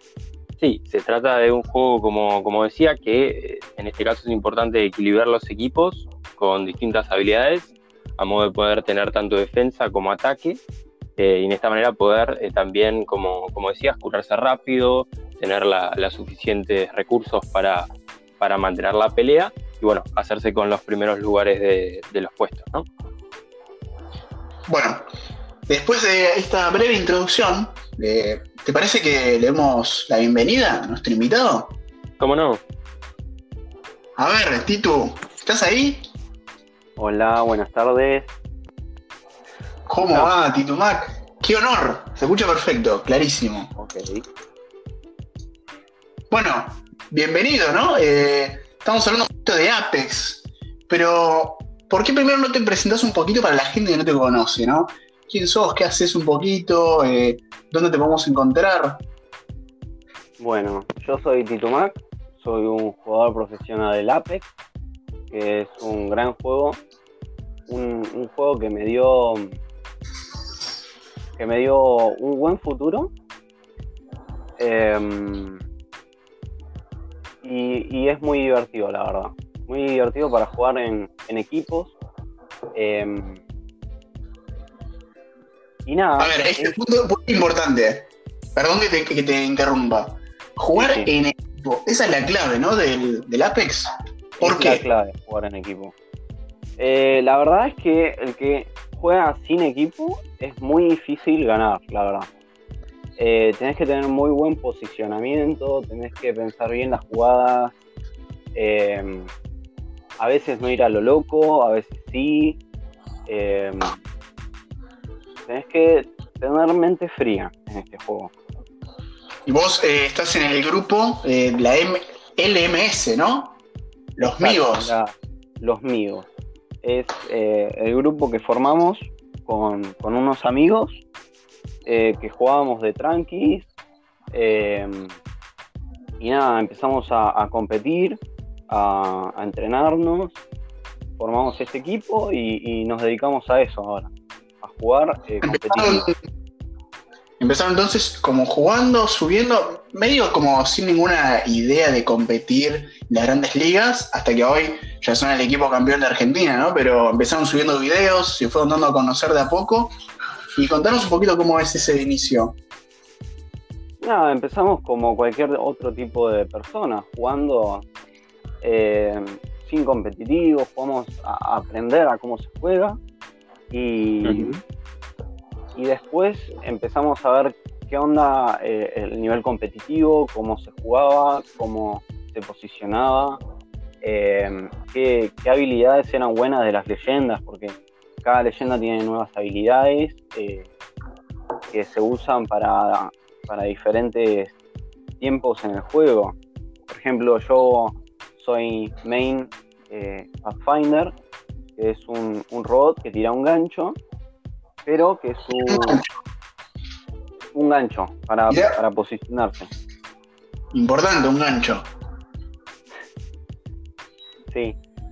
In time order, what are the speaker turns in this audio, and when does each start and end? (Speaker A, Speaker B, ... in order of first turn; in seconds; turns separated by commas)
Speaker A: 0.6-10.6, Speaker A: 11.2-22.9, Speaker B: 24.7-25.0, Speaker B: 25.7-31.8, Speaker A: 32.2-32.6, Speaker B: 34.2-36.0, Speaker C: 37.0-38.3, Speaker B: 39.9-43.7, Speaker C: 40.0-40.3, Speaker C: 43.8-44.3, Speaker B: 46.3-59.0, Speaker C: 60.4-64.5, Speaker C: 65.3-66.8, Speaker C: 67.7-69.6, Speaker C: 71.4-73.1, Speaker C: 74.6-75.6, Speaker C: 77.4-82.0, Speaker C: 82.7-83.4, Speaker C: 85.9-86.8, Speaker B: 86.2-94.9, Speaker C: 90.7-91.1, Speaker C: 94.4-95.9, Speaker C: 96.8-102.3, Speaker C: 103.2-107.8, Speaker C: 108.5-109.3, Speaker C: 110.2-112.6, Speaker C: 113.3-114.0, Speaker C: 115.5-118.3, Speaker B: 119.5-123.6, Speaker B: 124.2-124.9, Speaker C: 124.4-126.3, Speaker C: 126.8-131.0, Speaker C: 131.9-133.7, Speaker C: 134.3-135.2, Speaker C: 136.2-140.4, Speaker C: 141.2-146.1, Speaker B: 145.4-146.2, Speaker B: 147.4-159.9, Speaker B: 160.6-162.6, Speaker C: 164.0-167.9, Speaker C: 168.6-173.0, Speaker C: 173.7-174.6, Speaker A: 174.2-174.6, Speaker C: 175.8-183.4, Speaker C: 184.0-190.7, Speaker C: 191.7-194.6, Speaker C: 195.2-196.4, Speaker C: 196.9-201.1, Speaker C: 201.8-204.0, Speaker C: 204.9-206.0, Speaker B: 205.5-206.1, Speaker C: 207.5-209.7, Speaker B: 208.5-208.8, Speaker B: 210.7-211.9, Speaker C: 214.5-214.8